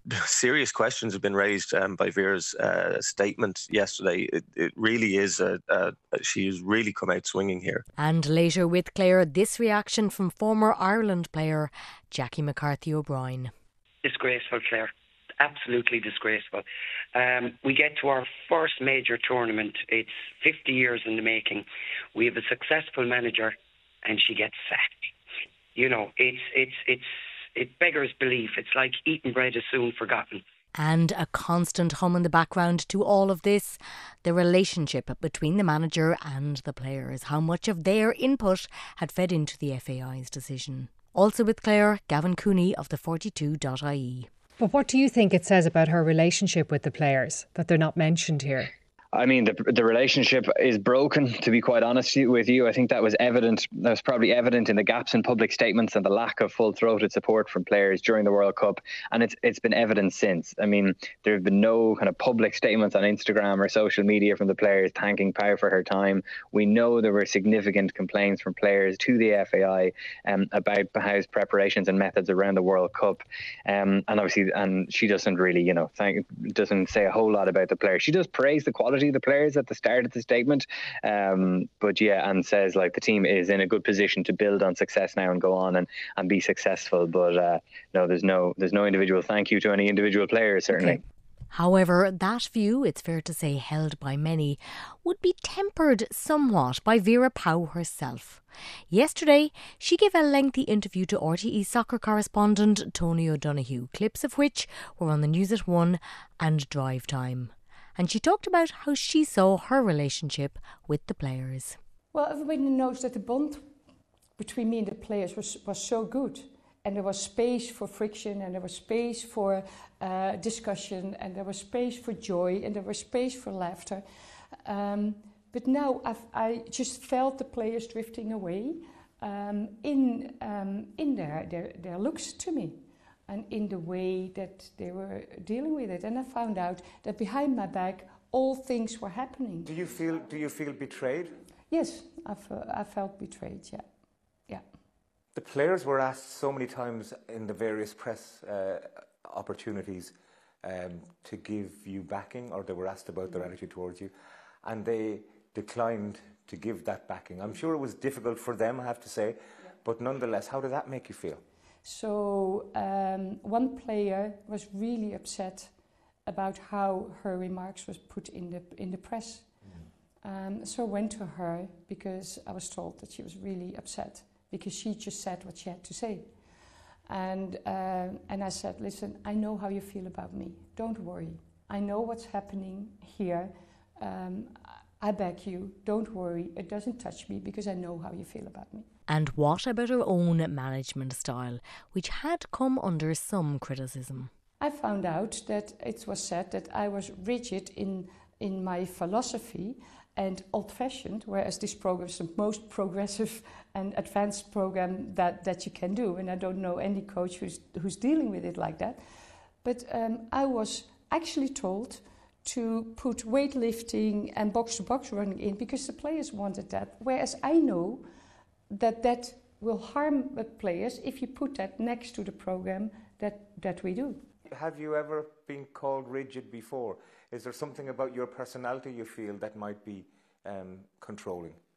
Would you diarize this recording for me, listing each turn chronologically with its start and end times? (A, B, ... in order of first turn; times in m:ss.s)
0:00.1-0:07.8 A
0:08.0-0:13.5 B
0:14.0-0:25.1 C
0:25.7-0:30.4 C
0:30.8-0:44.3 B
0:44.6-0:48.7 D
0:49.1-1:31.0 E
1:31.5-1:51.8 B
1:52.1-1:53.8 F
1:54.4-2:04.0 F
2:04.6-2:19.7 F
2:19.6-2:21.4 G
2:21.7-2:24.6 F
2:25.3-2:41.4 G
2:41.8-2:49.6 F
2:49.6-2:49.9 G
2:50.2-2:56.4 F
2:57.1-3:08.9 F
3:09.1-3:14.3 B
3:14.6-3:29.0 F
3:29.6-3:38.1 F
3:38.7-3:44.2 F
3:44.5-3:51.6 G